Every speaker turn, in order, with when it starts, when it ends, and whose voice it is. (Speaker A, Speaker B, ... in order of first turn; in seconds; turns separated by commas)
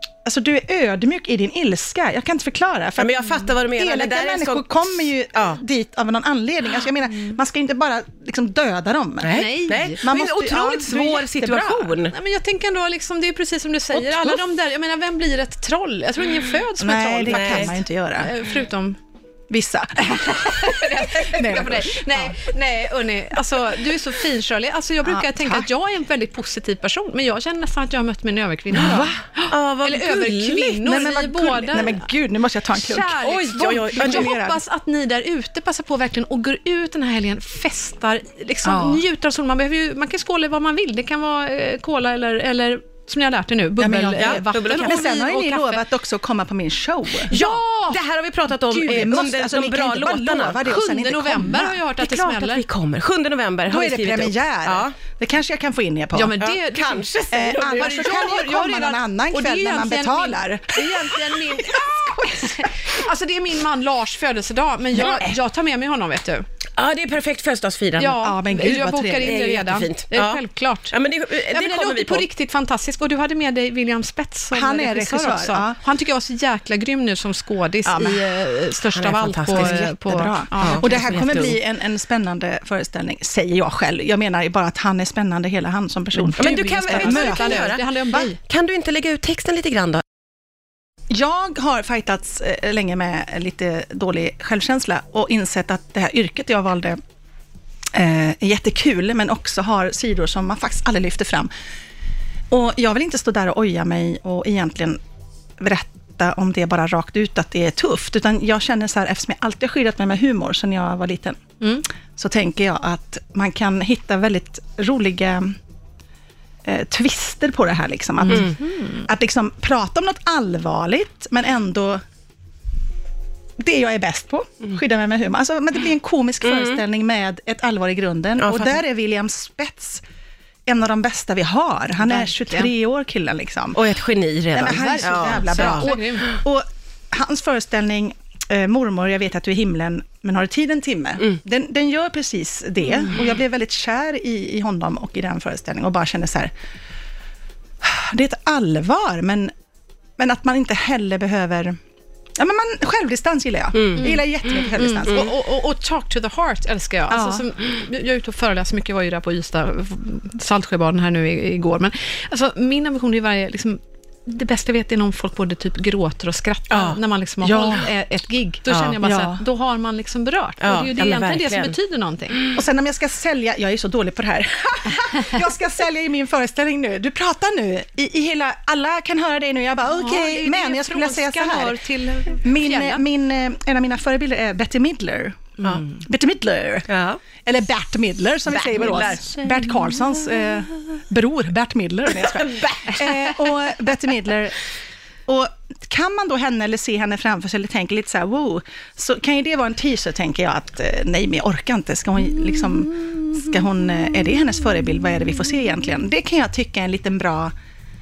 Speaker A: 0.2-12.0, Speaker B: 3.0-5.6, Speaker B: 9.2-12.1, Speaker C: 9.3-10.0, Speaker C: 12.1-19.0, Speaker A: 16.8-18.3, Speaker B: 17.3-17.7, Speaker A: 19.5-22.5, Speaker C: 20.2-32.0, Speaker A: 25.0-25.7, Speaker A: 28.7-29.1, Speaker B: 28.8-30.8, Speaker A: 30.8-34.6, Speaker C: 32.7-45.8, Speaker B: 33.2-34.4, Speaker A: 38.6-39.0, Speaker A: 43.8-47.3, Speaker B: 44.2-45.1, Speaker C: 47.2-48.0, Speaker B: 47.3-50.6, Speaker C: 48.7-49.1, Speaker A: 48.8-51.8, Speaker C: 50.6-52.6, Speaker B: 52.0-54.9, Speaker A: 53.7-56.4, Speaker C: 56.1-66.4, Speaker B: 56.4-57.1, Speaker A: 57.3-62.7, Speaker B: 66.8-68.2, Speaker C: 68.0-70.9, Speaker A: 68.2-69.4, Speaker B: 69.2-72.3, Speaker C: 71.5-81.6, Speaker A: 74.5-75.8, Speaker B: 78.9-79.8, Speaker A: 79.5-87.7, Speaker B: 80.6-81.0, Speaker C: 86.2-88.4, Speaker B: 86.3-90.0, Speaker A: 91.1-97.0, Speaker A: 97.9-101.5, Speaker A: 102.5-105.0, Speaker A: 105.6-111.5, Speaker A: 112.2-115.6, Speaker A: 116.6-122.0, Speaker C: 118.2-119.1, Speaker A: 123.6-130.0, Speaker B: 126.5-126.8, Speaker B: 128.4-128.8, Speaker A: 130.7-133.8, Speaker C: 132.0-132.7, Speaker B: 133.7-135.9, Speaker A: 134.5-146.5, Speaker C: 134.7-136.4, Speaker A: 147.8-149.5, Speaker A: 150.2-151.8, Speaker A: 152.3-155.3, Speaker B: 153.7-154.0, Speaker C: 154.0-172.5, Speaker A: 157.1-157.4, Speaker B: 166.7-167.0, Speaker A: 167.4-167.9, Speaker B: 168.7-169.0, Speaker A: 169.0-169.4, Speaker B: 170.6-171.8, Speaker A: 172.5-186.9, Speaker C: 179.8-183.0, Speaker B: 186.9-187.2, Speaker A: 187.4-194.6, Speaker B: 188.6-189.2, Speaker C: 188.7-190.2, Speaker B: 192.4-192.8, Speaker A: 195.2-207.5